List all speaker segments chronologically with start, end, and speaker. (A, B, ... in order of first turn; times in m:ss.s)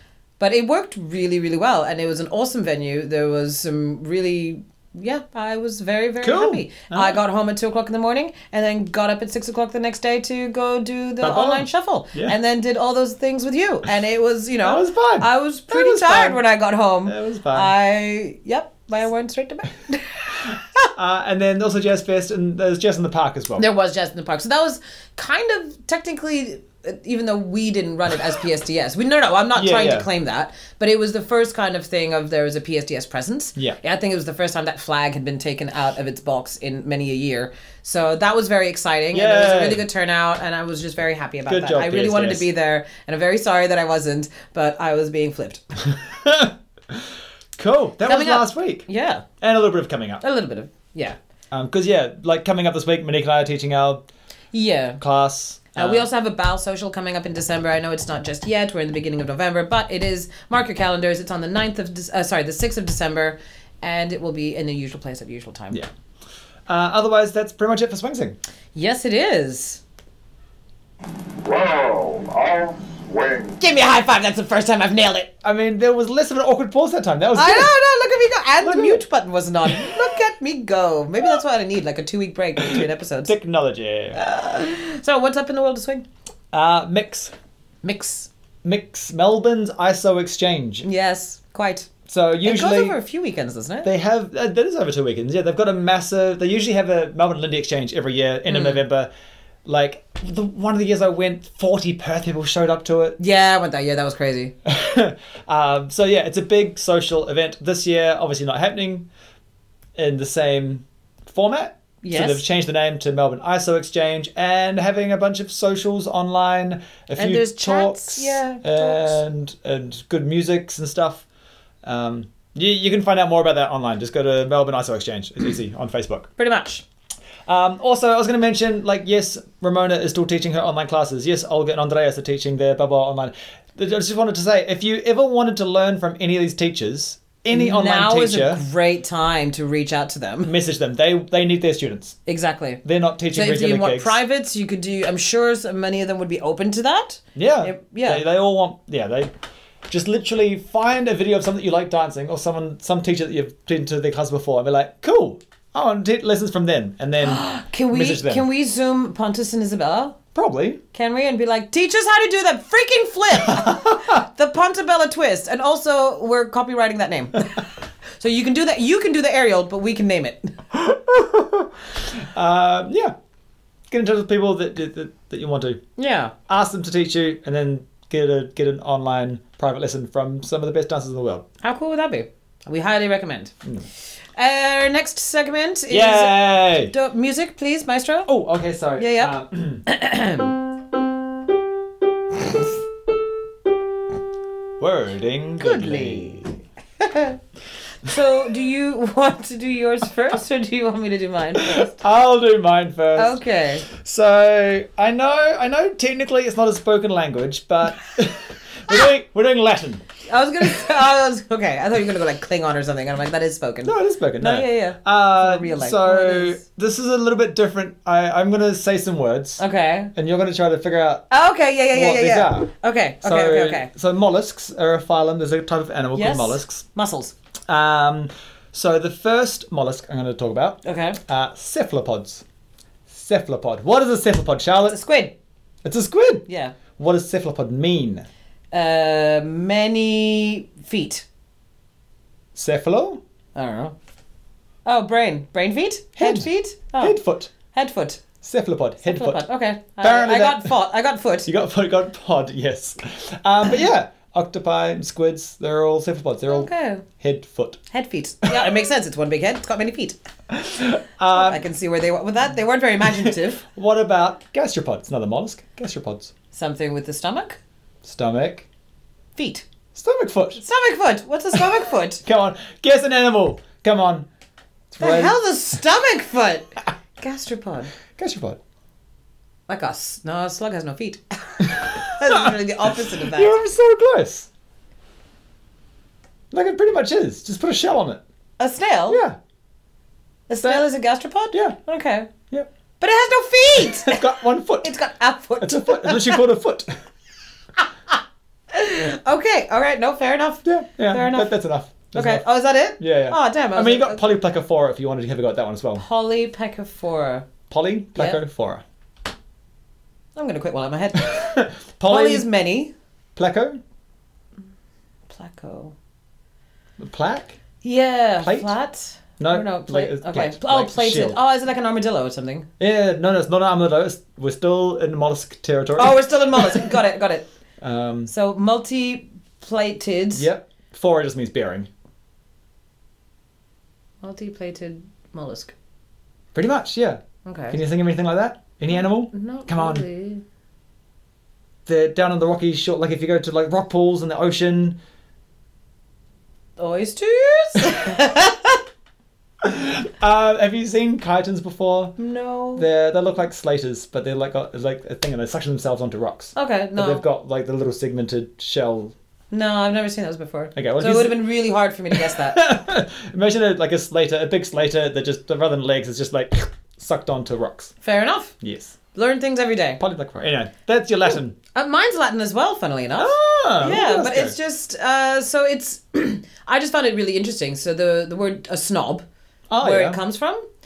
0:00.4-0:20.6 A
0:06.2-0:07.2 B
0:11.2-0:12.4 B
0:14.6-0:16.4 B
0:17.0-0:17.7 B
0:21.0-0:23.7 B
0:23.6-0:45.6 A
0:29.5-0:30.1 B
0:39.1-0:39.8 B
0:41.5-0:42.5 B
0:45.8-0:47.0 B
0:47.6-0:48.9 B
0:48.0-0:49.3 A
0:49.4-0:50.2 B
0:50.2-0:51.2 A
0:51.5-0:54.0 B
0:54.5-0:55.0 A
0:55.0-0:56.1 B
0:55.8-1:05.8 A
1:06.7-1:08.4 B
1:08.7-1:09.8 A
1:11.4-1:13.6 C
1:13.6-1:15.3 A
1:15.4-1:17.7 B
1:17.4-1:23.4 A
1:18.6-1:19.0 B
1:22.6-1:24.2 B
1:24.2-1:26.1 A
1:26.5-1:27.3 B
1:27.8-1:28.3 A
1:28.6-1:30.9 B
1:30.8-1:31.9 A
1:32.1-1:33.0 B
1:32.4-1:33.9 A
1:33.8-1:39.1 B
1:38.5-1:38.8 A
1:39.7-1:43.2 B
1:43.2-1:44.5 A
1:44.6-1:49.1 B
1:50.0-2:01.2 B
1:52.0-1:52.4 A
1:57.2-1:59.2 A
2:01.8-2:06.3 B
2:06.4-2:06.8 A
2:07.5-2:18.6 B
2:17.5-2:20.5 A
2:20.4-2:22.2 B
2:22.3-2:22.8 A
2:22.8-2:24.2 B
2:23.3-2:28.2 A
2:27.4-2:29.3 B
2:29.9-2:38.4 B
2:37.2-2:40.2 A
2:40.3-2:40.8 B
2:40.9-2:47.6 A
2:43.4-2:44.2 B
2:48.2-2:50.5 A
2:50.7-2:53.2 B
2:53.9-2:55.8 B
2:56.0-2:56.3 A
2:56.5-3:01.5 B
3:01.6-3:03.5 A
3:04.4-3:08.3 A
3:05.9-3:06.9 B
3:08.3-3:09.9 B
3:09.0-3:09.3 A
3:09.9-3:10.6 A
3:14.8-3:16.3 B
3:15.6-3:17.4 A
3:18.0-3:22.0 A
3:21.6-3:30.0 B
3:23.2-3:23.9 A
3:30.3-3:36.6 A
3:33.8-3:39.6 B
3:39.6-3:40.1 A
3:40.1-3:41.3 B
3:41.3-3:43.9 A
3:41.9-3:42.7 B
3:43.2-3:46.8 B
3:46.2-3:47.3 A
3:47.7-3:52.4 B
3:50.8-3:51.2 A
3:53.1-3:55.0 B
3:54.8-3:55.3 A
3:55.8-3:58.3 B
3:56.5-3:56.8 A
3:58.7-4:01.3 A
4:02.6-4:03.2 B
4:03.6-4:04.0 A
4:04.8-4:08.2 A
4:06.2-4:07.5 B
4:08.4-4:09.4 B
4:09.0-4:11.5 A
4:10.0-4:10.7 B
4:11.4-4:17.8 B
4:16.5-4:17.0 A
4:17.9-4:20.2 A
4:20.5-4:21.6 B
4:21.3-4:23.6 A
4:23.2-4:26.3 B
4:26.5-4:27.6 A
4:28.0-4:28.7 B
4:29.4-4:29.6 A
4:29.9-4:30.6 B
4:30.6-4:32.2 A
4:32.2-4:34.3 B
4:34.9-4:35.4 B
4:35.0-4:36.7 A
4:37.2-4:37.9 A
4:38.2-4:38.6 B
4:39.7-4:43.6 A
4:41.6-4:44.5 B
4:46.5-4:48.2 B
4:48.6-4:49.2 A
4:49.1-4:49.4 B
4:50.5-4:52.3 A
4:50.6-4:50.9 B
4:53.0-4:54.3 A
4:53.8-4:54.9 B
4:54.8-4:56.4 A
4:55.6-4:56.9 B
4:58.7-5:01.6 A
5:00.6-5:06.0 B
5:02.1-5:04.2 A
5:06.0-5:07.5 A
5:07.7-5:08.8 B
5:10.4-5:11.5 A
5:11.2-5:12.5 B
5:12.0-5:12.9 A
5:13.4-5:13.8 B
5:15.3-5:16.0 A
5:17.0-5:17.6 B
5:17.8-5:22.7 A
5:18.4-5:18.7 B
5:19.4-5:21.4 B
5:22.8-5:27.0 B
5:26.0-5:27.5 A
5:27.8-5:28.3 B
5:28.3-5:30.5 A
5:30.3-5:31.9 B
5:34.2-5:35.7 A
5:36.5-5:40.0 B
5:37.4-5:37.8 A
5:38.9-5:40.4 A
5:41.9-5:45.0 B
5:46.8-5:48.8 A
5:49.6-5:52.2 B
5:52.2-5:52.9 A
5:52.8-5:59.1 B
5:56.6-5:57.2 A
5:59.5-6:02.6 A
6:00.8-6:01.4 B
6:02.1-6:07.9 B
6:08.0-6:08.6 A
6:08.6-6:08.9 B
6:09.1-6:10.0 A
6:10.0-6:11.6 B
6:11.7-6:19.3 A
6:13.2-6:14.5 B
6:19.7-6:20.2 B
6:19.8-6:20.6 A